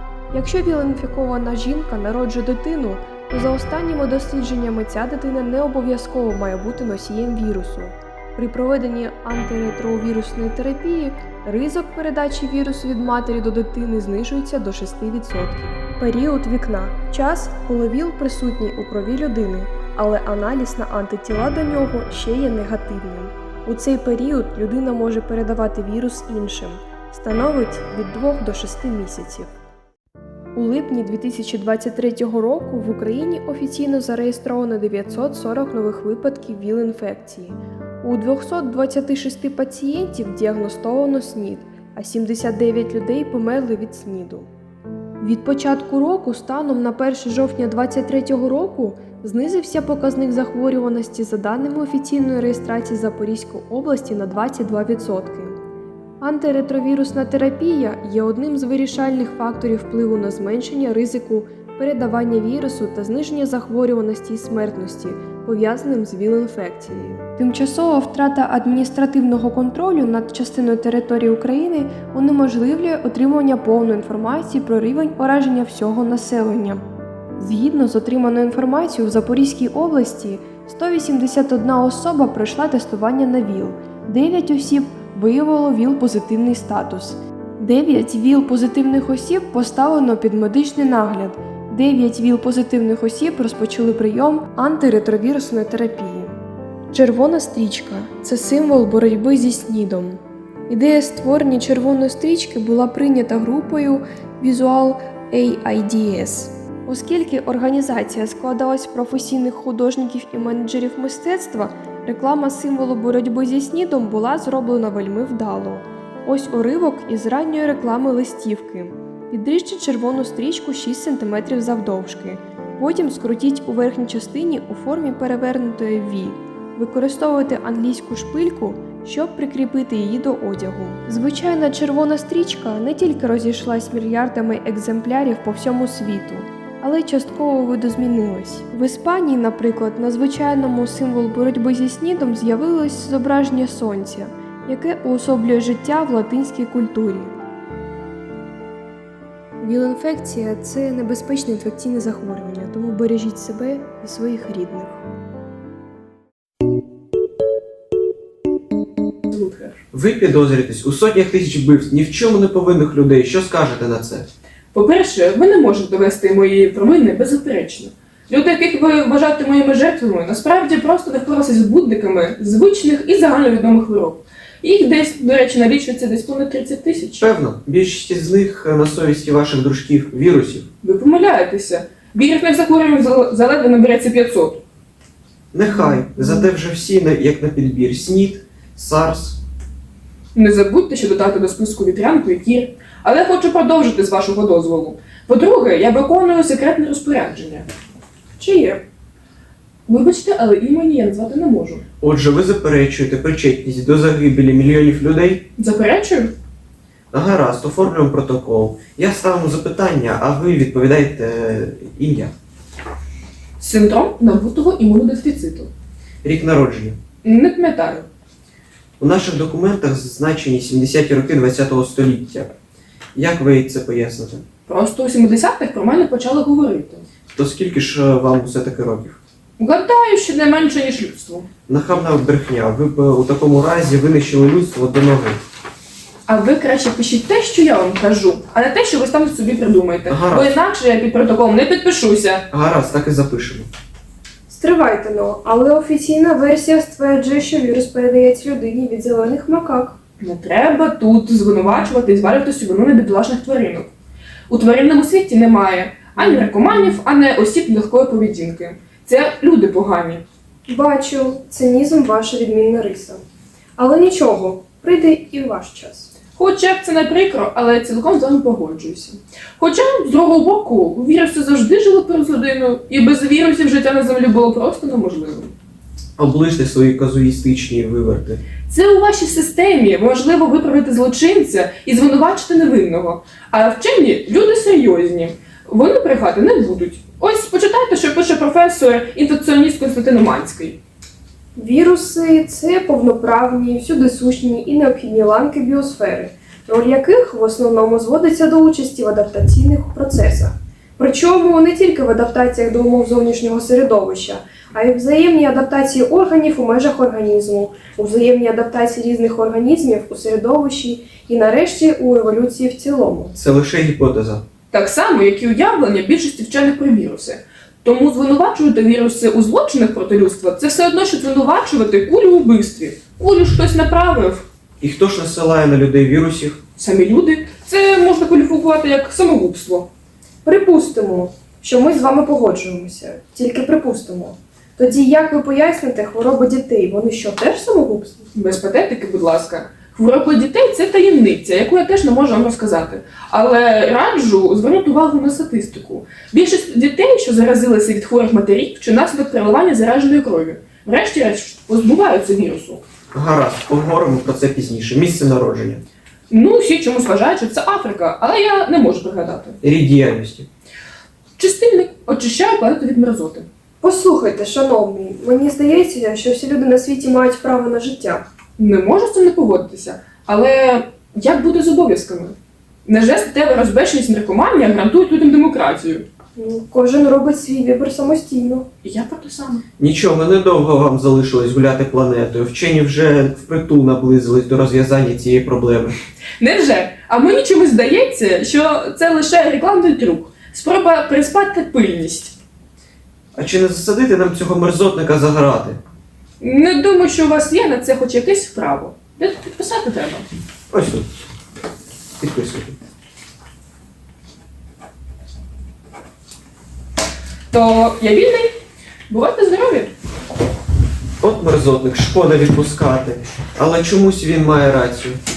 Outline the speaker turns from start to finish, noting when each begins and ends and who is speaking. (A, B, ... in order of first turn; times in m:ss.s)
0:00.3-0:29.5 A
0:30.5-0:44.5 A
0:45.2-0:55.6 A
0:56.2-1:16.8 A
1:17.4-1:36.4 A
1:36.9-2:27.3 A
2:29.6-2:35.0 A
2:39.3-2:39.8 B
2:39.9-2:44.2 C
2:44.7-2:57.3 B
2:57.2-3:00.7 C
3:00.8-3:04.6 B
3:05.5-3:09.4 C
3:10.3-3:17.7 B
3:18.4-3:18.8 A
3:19.9-3:21.8 B
3:22.0-3:25.4 C
3:25.6-3:26.3 B
3:27.1-3:32.3 C
3:33.6-3:35.7 B
3:36.2-3:37.0 C
3:37.2-3:38.0 B
3:39.0-3:42.5 C
3:43.1-3:44.4 C
3:44.7-3:47.0 B
3:47.3-3:49.2 C
3:49.6-3:51.5 B
3:51.7-3:55.4 C
3:56.3-4:02.4 B
4:00.1-4:00.5 C
4:02.5-4:03.7 C
4:04.5-4:10.0 A
4:10.2-4:13.9 B
4:14.5-4:20.2 B
4:16.2-4:17.0 A
4:20.7-4:23.2 A
4:23.8-4:26.1 A
4:26.4-4:35.5 B
4:36.2-4:38.4 C
4:38.7-4:50.8 B
4:51.6-5:13.3 A
5:13.3-5:14.4 C
5:14.7-5:24.4 B
5:24.8-5:26.6 C
5:26.8-5:29.9 B
5:30.4-5:38.3 A
5:38.3-5:52.8 B
5:53.1-5:55.8 C
5:56.3-5:59.6 B
5:59.6-6:00.5 C
6:01.4-6:03.5 B
6:03.8-6:08.2 A
6:08.6-6:16.0 B
6:16.4-6:18.7 A
6:18.8-6:19.6 B
6:19.8-6:26.0 C
6:26.4-6:32.3 B
6:33.3-6:35.8 C
6:36.4-6:40.2 B
6:40.7-6:41.1 C
6:42.2-6:42.8 C
6:47.5-6:48.5 B
6:49.1-6:49.9 B
6:51.2-6:55.2 C